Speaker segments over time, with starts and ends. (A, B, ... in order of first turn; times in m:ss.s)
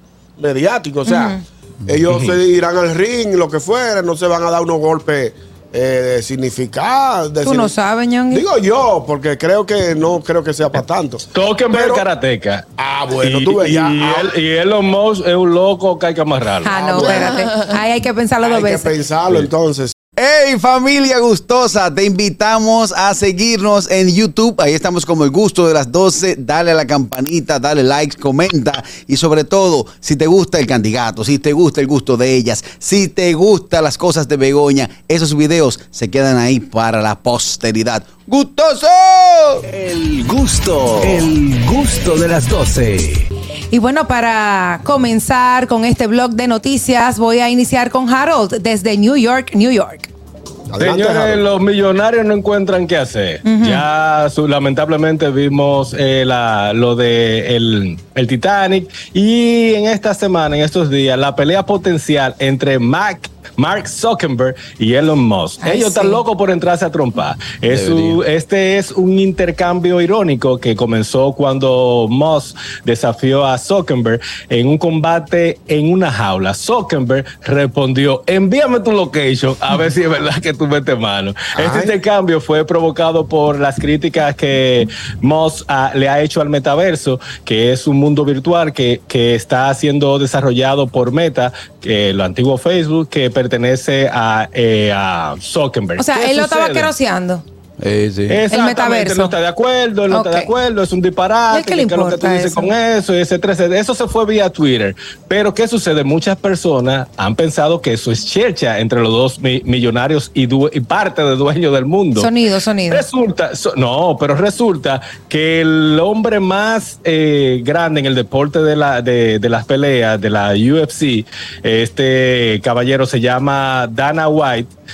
0:00.4-0:07.8 A
0:01.1-0:01.4 B
0:07.4-0:08.5 B
0:08.3-0:12.1 A
0:11.3-0:12.6 C
0:12.8-0:14.3 A
0:13.2-0:16.7 C
0:16.6-0:18.9 B
0:16.7-0:17.4 A
0:18.4-0:19.9 A
0:20.2-0:39.7 D
0:39.7-0:43.3 E
0:43.7-0:50.1 B
0:50.7-0:51.4 A
0:50.8-1:36.9 C
0:53.4-0:53.9 B
1:05.6-1:06.2 B
1:07.7-1:08.2 D
1:21.6-1:22.0 A
1:36.0-1:37.4 B
1:37.8-1:38.4 D
1:38.3-1:52.3 C
1:38.5-1:39.4 B
1:40.1-1:40.5 B
1:41.5-1:42.7 B
1:52.2-1:53.1 B
1:52.9-2:04.7 C